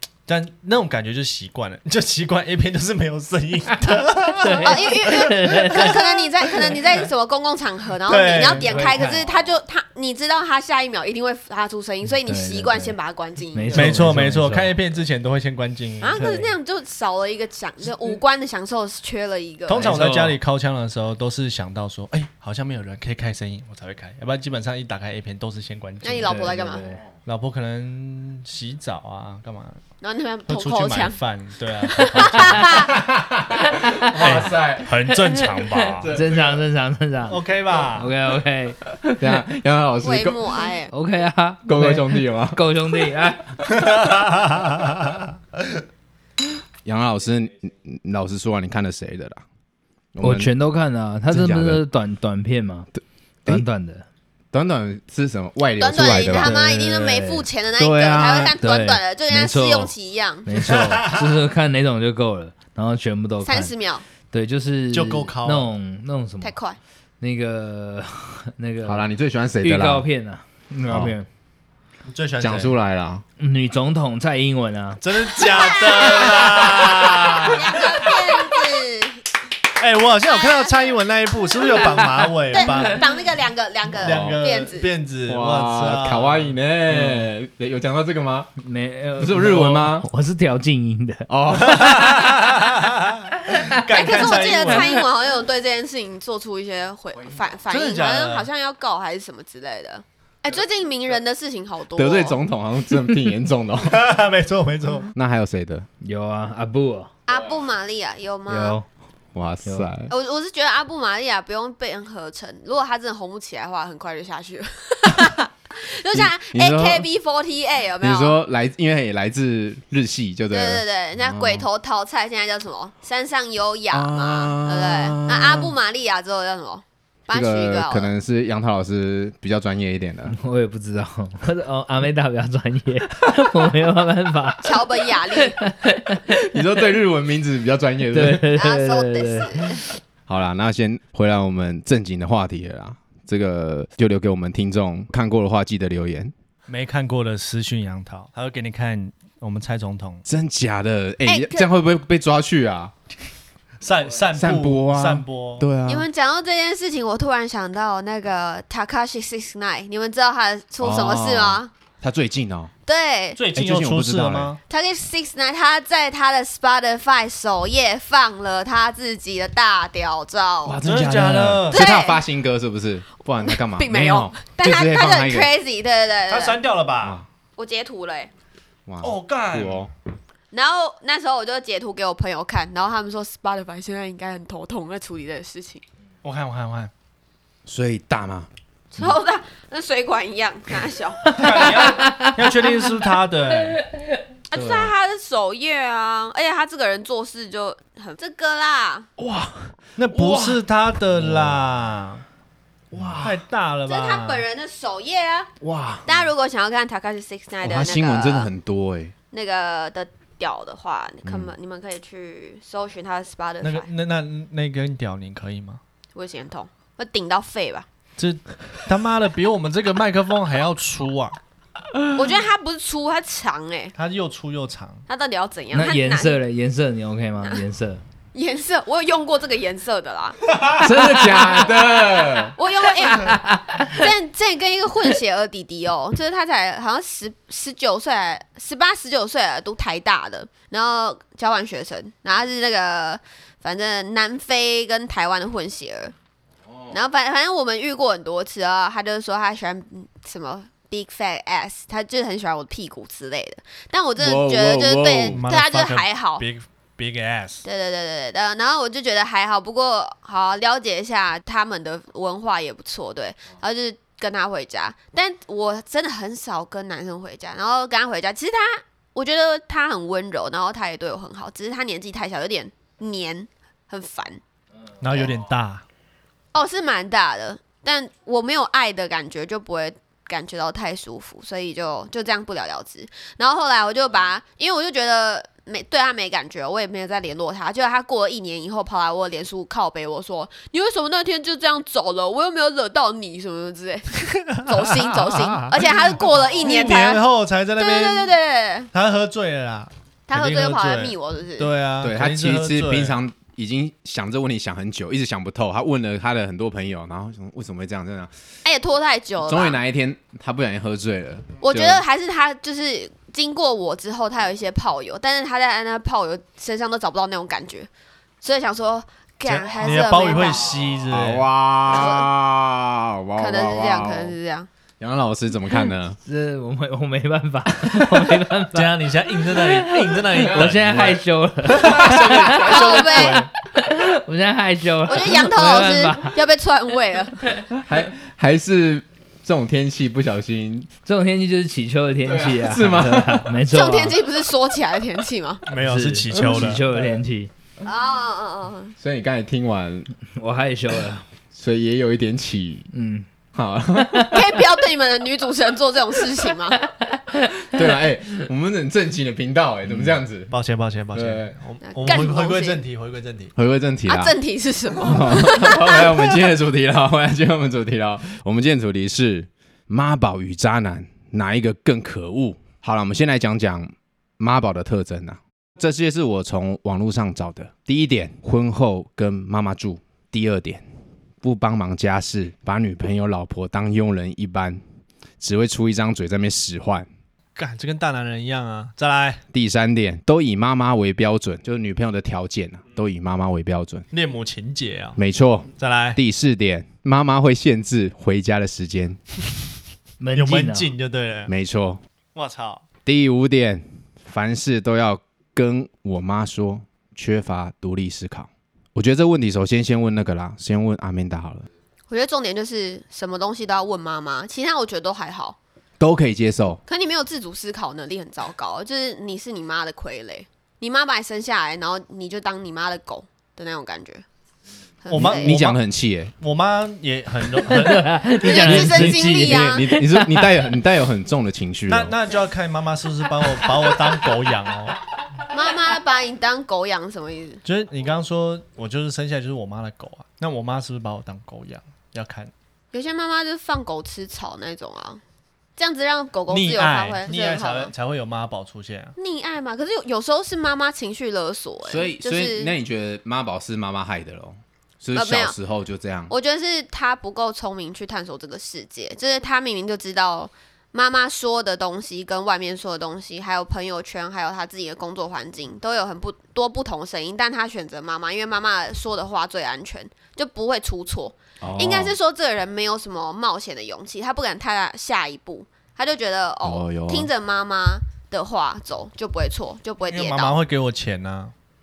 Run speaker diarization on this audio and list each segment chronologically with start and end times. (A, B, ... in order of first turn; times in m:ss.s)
0:00.3-0:06.2 A
0:03.9-0:06.0 B
0:04.5-0:14.0 C
0:08.1-0:08.8 A
0:08.5-0:09.3 B
0:12.1-0:13.0 B
0:13.5-0:14.8 B
0:13.7-0:16.3 A
0:16.0-0:19.9 C
0:16.2-0:16.5 B
0:19.7-0:26.4 A
0:19.8-0:20.4 B
0:26.0-0:26.8 C
0:26.2-0:27.0 B
0:26.8-0:27.1 D
0:27.3-0:29.8 A
0:30.0-0:31.2 C
0:30.5-0:32.9 A
0:31.8-0:33.0 C
0:32.8-0:34.9 D
0:34.1-0:36.5 A
0:35.1-0:37.4 B
0:36.0-0:36.4 D
0:37.3-0:38.1 A
0:37.9-0:38.8 B
0:39.0-0:40.6 D
0:40.0-0:40.9 C
0:40.9-0:43.6 B
0:41.7-0:42.6 D
0:44.0-0:45.1 A
0:46.8-0:49.4 D
0:50.2-0:50.5 D
0:50.2-0:52.9 B
0:51.3-0:51.8 D
0:53.5-0:54.1 B
0:54.5-0:56.6 D
0:55.8-1:00.5 C
0:56.3-0:57.5 B
0:57.8-0:58.6 A
0:58.6-0:59.9 B
1:00.4-1:03.7 B
1:00.8-1:01.2 A
1:03.4-1:04.0 C
1:04.3-1:06.6 B
1:04.9-1:05.7 A
1:06.4-1:06.8 C
1:07.2-1:09.1 B
1:08.8-1:10.1 D
1:09.6-1:11.3 B
1:12.1-1:12.8 A
1:12.4-1:13.2 D
1:13.4-1:15.0 B
1:15.0-1:17.8 A
1:15.4-1:19.2 C
1:19.8-1:23.0 A
1:20.3-1:21.0 C
1:21.6-1:24.9 C
1:22.6-1:22.8 B
1:24.0-1:26.6 A
1:24.0-1:24.4 D
1:25.3-1:28.5 D
1:26.9-1:27.3 B
1:28.6-1:31.6 B
1:29.2-1:30.0 D
1:31.3-1:32.4 D
1:31.5-1:35.1 A
1:33.5-1:33.8 B
1:33.9-1:42.4 C
1:37.7-1:38.5 A
1:42.0-1:44.0 D
1:43.8-1:45.1 A
1:45.2-1:45.9 D
1:46.0-1:47.1 B
1:47.3-1:48.8 C
1:48.5-1:48.9 B
1:49.3-1:50.1 D
1:50.1-1:58.4 C
1:56.1-1:57.1 D
1:58.0-2:01.7 D
2:00.5-2:08.1 C
2:03.9-2:05.8 D
2:07.3-2:10.4 D
2:10.3-2:16.3 B
2:14.6-2:15.6 C
2:16.3-2:18.5 D
2:18.1-2:19.9 B
2:18.5-2:19.8 C
2:20.3-2:26.3 D
2:26.7-2:30.2 A
2:30.3-2:32.9 D
2:31.2-2:31.7 C
2:33.8-2:35.7 A
2:34.3-2:36.1 D
2:35.9-2:41.7 C
2:40.8-2:42.7 D
2:42.9-2:43.4 C
2:43.4-2:44.6 A
2:43.6-2:44.6 D
2:44.7-2:50.8 C
2:50.6-2:55.5 D
2:50.8-2:51.8 A
2:51.7-2:52.2 C
2:53.4-2:56.6 C
2:56.3-2:57.2 A
2:57.0-2:57.3 D
2:57.6-2:58.3 C
2:58.9-2:59.9 D
2:59.0-2:59.9 A
3:00.5-3:05.8 C
3:06.2-3:06.9 A
3:07.7-3:09.2 D
3:08.9-3:11.9 C
3:11.3-3:13.8 A
3:11.8-3:12.9 B
3:14.5-3:19.1 C
3:14.5-3:14.9 D
3:19.2-3:21.7 D
3:20.0-3:22.2 A
3:22.9-3:23.4 D
3:23.2-3:24.4 A
3:23.9-3:25.5 C
3:25.6-3:26.3 D
3:26.1-3:28.5 C
3:27.6-3:29.1 D
3:29.3-3:33.9 C
3:31.2-3:31.5 D
3:33.6-3:35.8 A
3:36.2-3:37.9 C
3:38.2-3:41.4 A
3:42.1-3:43.9 C
3:44.0-3:45.1 A
3:45.1-3:46.4 C
3:45.7-3:48.0 B
3:48.3-4:06.2 C
3:50.7-3:52.6 D
3:53.3-3:54.0 B
4:06.7-4:07.0 D
4:06.9-4:16.4 C
4:14.2-4:15.4 D
4:15.3-4:17.6 A
4:17.6-4:34.4 C
4:35.0-4:35.8 A
4:36.5-4:57.2 C
4:54.9-4:58.4 A
4:57.8-4:58.9 C
4:58.9-5:03.2 A
5:00.3-5:01.7 C
5:02.0-5:08.3 D
5:08.6-5:09.8 C
5:09.4-5:12.0 D
5:11.6-5:17.9 C
5:18.4-5:20.8 C
5:19.4-5:21.5 A
5:20.8-5:24.4 D
5:21.9-5:22.3 C
5:23.4-5:24.7 C
5:25.0-5:26.2 D
5:26.3-5:33.0 B
5:28.7-5:33.5 A
5:30.4-5:31.2 D
5:31.7-5:33.5 D
5:32.6-5:33.5 C
5:33.7-5:36.4 B
5:35.1-5:37.5 C
5:37.7-5:40.9 D
5:41.1-5:44.2 B
5:42.3-5:43.5 D
5:43.7-5:45.6 C
5:45.7-5:46.8 A
5:45.7-5:47.5 B
5:46.4-5:47.1 D
5:47.8-5:49.0 C
5:49.0-5:50.1 D
5:50.3-5:51.2 B
5:51.5-5:52.9 D
5:52.9-5:53.3 B
5:53.5-5:54.5 D
5:54.0-5:54.4 B
5:54.3-5:56.8 C
5:57.0-5:57.8 B
5:57.6-6:00.5 D
6:00.5-6:03.5 A
6:01.1-6:01.5 D
6:02.0-6:02.8 C
6:03.6-6:04.4 D
6:04.1-6:06.4 C
6:05.0-6:20.8 D
6:21.4-6:24.8 D
6:25.4-6:27.1 D
6:27.6-6:29.4 A
6:29.5-6:34.0 D
6:34.1-6:35.2 A
6:35.2-6:39.2 D
6:35.8-6:36.2 A
6:40.2-6:40.9 B
6:40.4-6:41.5 A
6:41.5-6:42.0 D
6:42.4-6:42.8 A
6:43.1-6:51.7 D
6:52.1-6:55.6 C
6:56.0-6:56.8 D
6:56.9-7:04.2 C
7:05.0-7:05.5 C
7:05.1-7:05.8 A
7:05.1-7:06.3 D
7:06.4-7:08.4 A
7:07.7-7:10.6 B
7:08.4-7:09.9 C
7:08.5-7:12.2 D
7:11.9-7:15.0 A
7:15.5-7:17.6 C
7:17.6-7:22.5 A
7:22.9-7:25.2 C
7:25.8-7:27.9 C
7:26.5-7:29.2 A
7:29.2-7:32.7 C
7:31.8-7:36.3 D
7:35.1-7:35.6 C
7:36.3-8:00.6 C
7:51.6-7:52.2 D
7:56.6-7:57.3 D
8:00.0-8:01.5 A